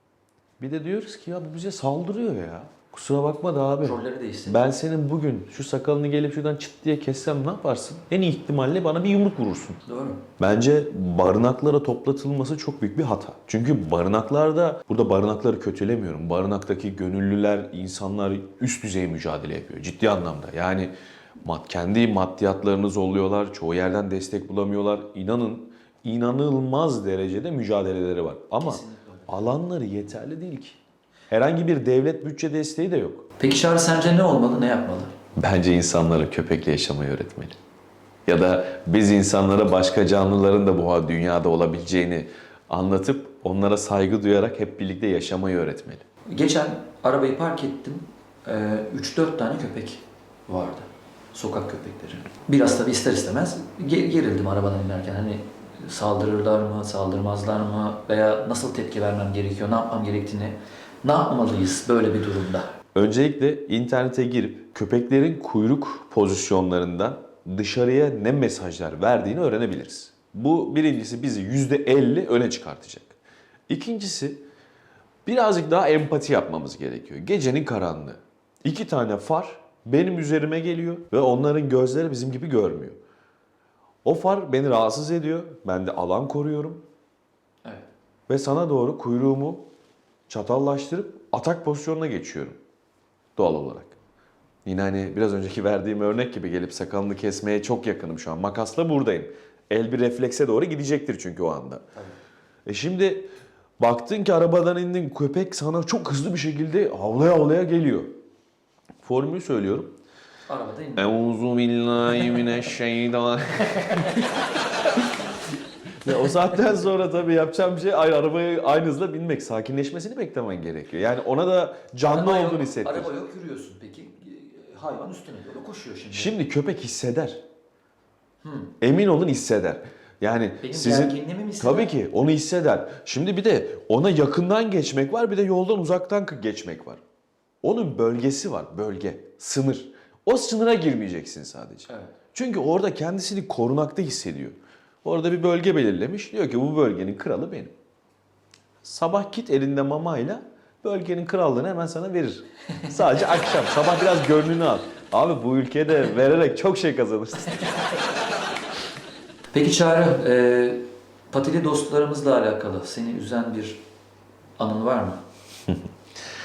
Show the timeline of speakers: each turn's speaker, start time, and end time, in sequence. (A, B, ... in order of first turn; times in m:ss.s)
0:00.6-0:09.8 A
0:03.8-0:04.7 B
0:09.8-0:10.3 B
0:10.4-0:20.9 A
0:21.4-0:30.8 A
0:28.6-0:29.3 B
0:31.3-0:33.3 A
0:33.4-0:35.1 B
0:35.4-0:37.6 A
0:38.2-0:46.0 A
0:46.3-1:02.7 B
1:02.9-1:13.2 A
1:13.7-1:14.4 A
1:15.2-1:23.0 A
1:24.0-1:26.8 A
1:28.3-1:29.7 A
1:30.3-1:32.6 A
1:33.4-1:34.0 A
1:34.6-1:41.8 A
1:42.6-1:48.2 A
1:49.0-1:49.9 A
1:50.5-1:51.2 B
1:51.0-2:03.1 A
1:53.8-1:54.2 B
2:02.1-2:06.3 B
2:06.1-2:07.4 A
2:08.4-2:08.7 B
2:08.8-2:17.0 A
2:10.6-2:11.9 B
2:17.6-2:27.7 A
2:21.9-2:22.1 B
2:28.8-2:37.7 A
2:39.5-2:43.8 B
2:44.6-2:45.2 B